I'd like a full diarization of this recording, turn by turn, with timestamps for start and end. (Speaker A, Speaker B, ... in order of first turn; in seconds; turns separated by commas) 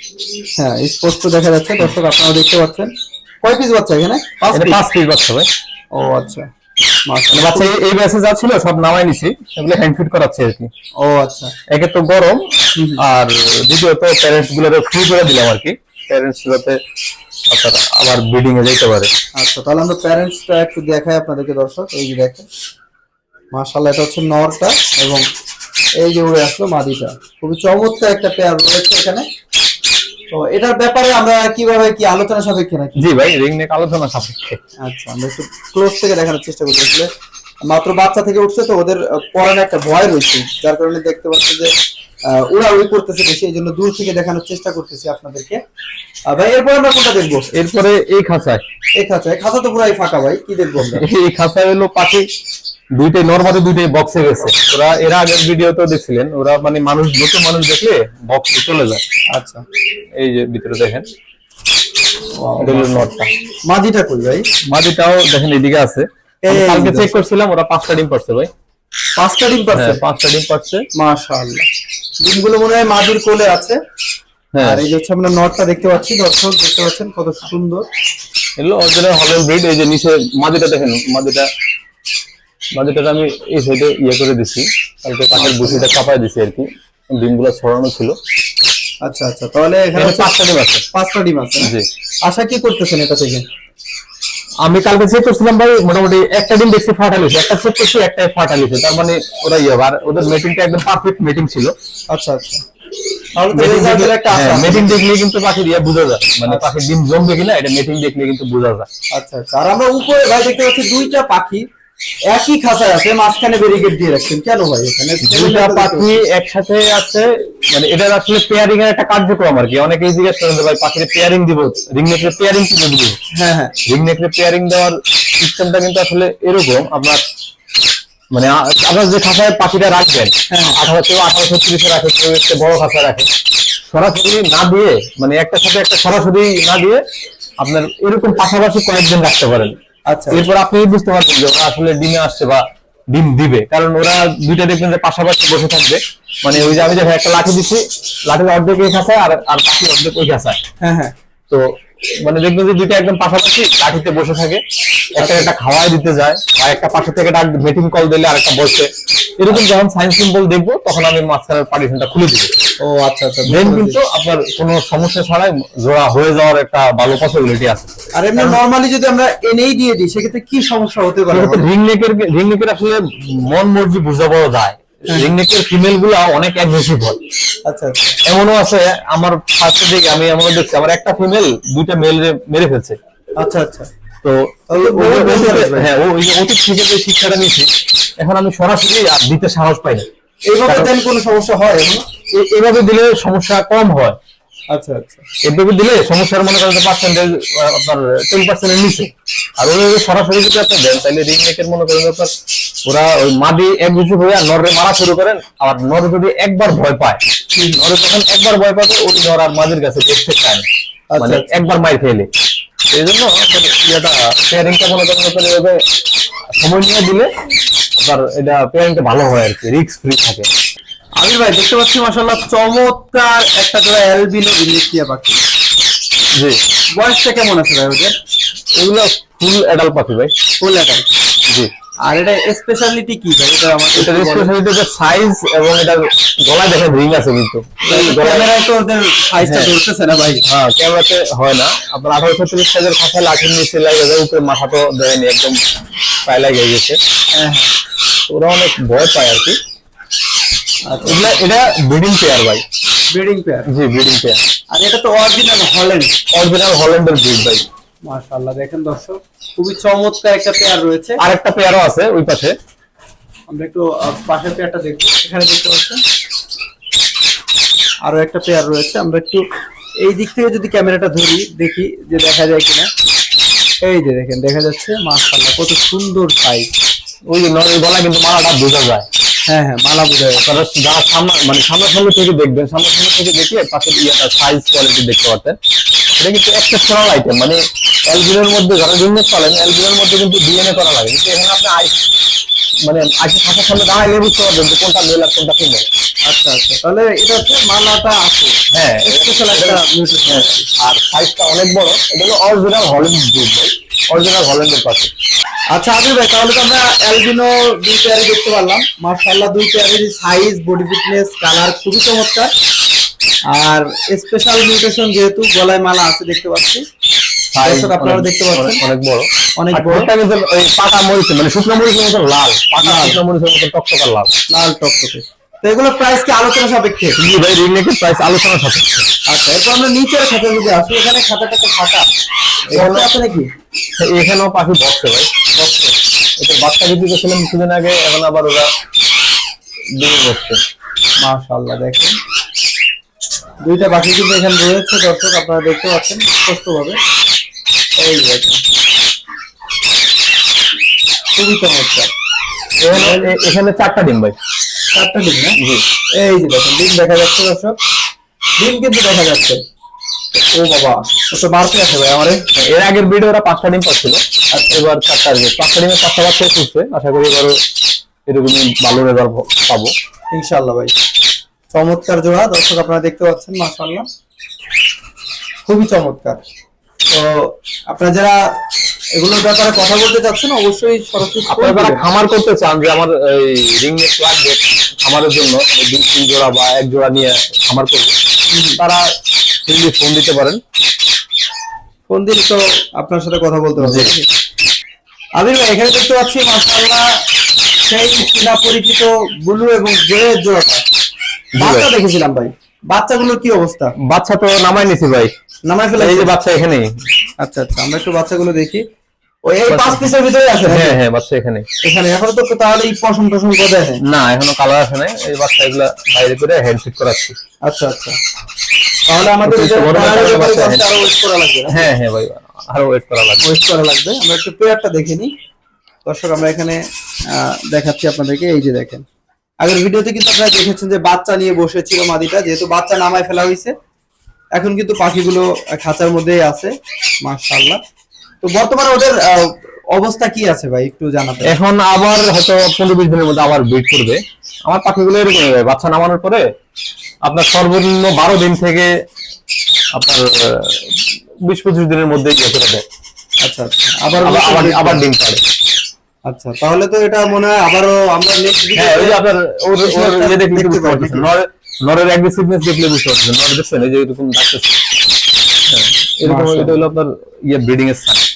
Speaker A: 0.6-2.9, Speaker A: 3.4-4.8, Speaker B: 4.5-5.5, Speaker A: 5.9-6.5, Speaker A: 7.1-7.8, Speaker B: 7.3-10.7, Speaker A: 11.0-11.5, Speaker B: 11.7-16.8, Speaker A: 12.8-13.0, Speaker B: 17.5-19.1, Speaker A: 19.4-22.5, Speaker A: 23.5-25.2, Speaker A: 26.0-29.2, Speaker A: 30.3-33.1, Speaker B: 33.0-34.6, Speaker A: 34.8-37.1, Speaker A: 37.6-41.7, Speaker A: 42.3-45.6, Speaker A: 46.3-47.5, Speaker B: 47.5-48.6, Speaker A: 49.0-51.0, Speaker B: 50.8-52.3, Speaker B: 53.0-59.0, Speaker A: 59.3-59.6, Speaker B: 60.2-61.1, Speaker A: 62.4-63.1, Speaker B: 62.6-63.3, Speaker A: 63.7-64.5, Speaker B: 64.7-68.5, Speaker A: 66.4-67.2, Speaker A: 69.2-70.0, Speaker B: 69.7-70.9, Speaker A: 71.0-71.7, Speaker A: 72.2-73.8, Speaker B: 74.5-74.8, Speaker A: 74.6-77.9, Speaker B: 78.6-81.5, Speaker B: 82.8-88.2, Speaker A: 85.3-85.9, Speaker A: 89.0-90.3, Speaker B: 90.0-90.9, Speaker A: 90.9-91.7, Speaker B: 91.6-91.9, Speaker A: 92.2-93.4, Speaker B: 94.6-101.8, Speaker A: 102.1-102.6, Speaker A: 103.4-105.0, Speaker B: 103.5-108.9, Speaker A: 109.1-111.7, Speaker A: 112.3-116.2, Speaker B: 115.2-123.2, Speaker A: 123.3-123.8, Speaker B: 123.9-127.2, Speaker B: 128.3-133.3, Speaker A: 130.5-130.8, Speaker B: 133.9-137.0, Speaker B: 137.6-139.8, Speaker A: 140.1-140.4, Speaker B: 140.3-150.6, Speaker A: 146.5-146.8, Speaker A: 150.8-151.1, Speaker B: 151.5-154.6, Speaker A: 155.2-155.5, Speaker B: 155.2-162.5, Speaker A: 162.8-164.0, Speaker B: 163.5-168.6, Speaker A: 168.2-171.7, Speaker B: 171.3-177.2, Speaker A: 175.1-175.3, Speaker A: 177.7-178.2, Speaker B: 178.2-183.0, Speaker A: 183.4-183.9, Speaker B: 184.2-187.7, Speaker A: 184.7-185.9, Speaker B: 188.2-190.1, Speaker A: 190.5-192.0, Speaker B: 190.7-190.9, Speaker B: 192.3-194.2, Speaker A: 194.7-195.2, Speaker B: 195.4-202.3, Speaker B: 202.9-207.2, Speaker B: 207.8-210.7, Speaker A: 211.1-211.6, Speaker B: 211.2-212.3, Speaker B: 212.9-215.8, Speaker B: 216.6-217.3, Speaker B: 218.0-220.5, Speaker A: 221.2-225.4, Speaker A: 226.9-228.2, Speaker B: 228.8-230.3, Speaker A: 230.6-231.1, Speaker A: 232.1-234.5, Speaker B: 234.0-238.5, Speaker A: 237.9-240.4, Speaker B: 239.4-239.7, Speaker B: 240.5-245.6, Speaker B: 246.2-247.0, Speaker A: 247.3-247.7, Speaker B: 248.3-249.6, Speaker A: 250.9-251.4, Speaker B: 251.1-252.6, Speaker A: 253.1-253.7, Speaker B: 253.7-254.4, Speaker A: 254.7-256.2, Speaker B: 256.3-257.7, Speaker A: 258.1-261.2, Speaker B: 261.2-262.6, Speaker A: 263.5-266.0, Speaker A: 268.1-269.4, Speaker A: 270.0-272.9, Speaker A: 273.8-276.7, Speaker B: 277.3-279.1, Speaker A: 279.5-280.4, Speaker B: 280.4-285.6, Speaker B: 286.2-292.0, Speaker B: 292.8-295.9, Speaker A: 296.3-300.7, Speaker B: 298.7-305.1, Speaker A: 305.7-312.5, Speaker A: 313.5-316.8, Speaker B: 317.5-324.3, Speaker A: 317.6-318.8, Speaker A: 319.6-320.1, Speaker A: 322.8-323.2, Speaker A: 324.5-327.2, Speaker B: 327.2-329.1, Speaker A: 329.3-332.1, Speaker A: 332.7-333.5, Speaker B: 332.7-333.1, Speaker B: 334.0-335.3, Speaker A: 335.6-335.9, Speaker B: 336.4-338.7, Speaker B: 340.0-340.6, Speaker A: 341.2-342.2, Speaker A: 343.6-347.0, Speaker A: 348.0-348.6, Speaker A: 351.4-352.1, Speaker B: 352.8-354.4, Speaker A: 352.9-353.3, Speaker A: 354.9-355.6, Speaker B: 355.6-355.9, Speaker A: 356.1-357.8, Speaker A: 358.6-359.6, Speaker A: 360.3-362.4, Speaker B: 362.5-367.6, Speaker A: 364.5-364.8, Speaker B: 368.3-369.9, Speaker A: 370.3-370.9, Speaker A: 371.7-374.1, Speaker A: 375.7-376.4, Speaker A: 377.1-378.4, Speaker A: 379.1-382.1, Speaker B: 381.5-388.1, Speaker A: 388.5-388.8, Speaker B: 388.8-389.1, Speaker B: 389.7-390.6, Speaker A: 392.1-394.3, Speaker B: 393.8-394.1, Speaker A: 395.4-397.1, Speaker A: 397.9-400.8, Speaker B: 401.6-401.9, Speaker A: 401.6-403.9, Speaker B: 404.0-405.3, Speaker A: 405.7-406.3, Speaker B: 406.0-406.9, Speaker A: 407.4-408.8, Speaker A: 409.5-411.0, Speaker B: 409.7-410.1, Speaker B: 410.6-411.7, Speaker A: 411.8-414.0, Speaker B: 414.0-417.4, Speaker A: 417.6-418.2, Speaker A: 419.1-421.9, Speaker B: 419.4-420.9, Speaker B: 421.7-423.5, Speaker A: 423.4-425.3, Speaker A: 426.1-429.0, Speaker A: 429.6-433.7, Speaker A: 434.6-437.8, Speaker A: 438.4-441.6, Speaker B: 441.4-446.5, Speaker B: 447.2-448.9, Speaker B: 449.9-452.8, Speaker A: 453.4-455.0, Speaker B: 454.2-455.4, Speaker A: 456.3-459.2, Speaker B: 458.8-464.8, Speaker A: 459.8-461.3, Speaker B: 465.7-468.2, Speaker A: 466.2-466.8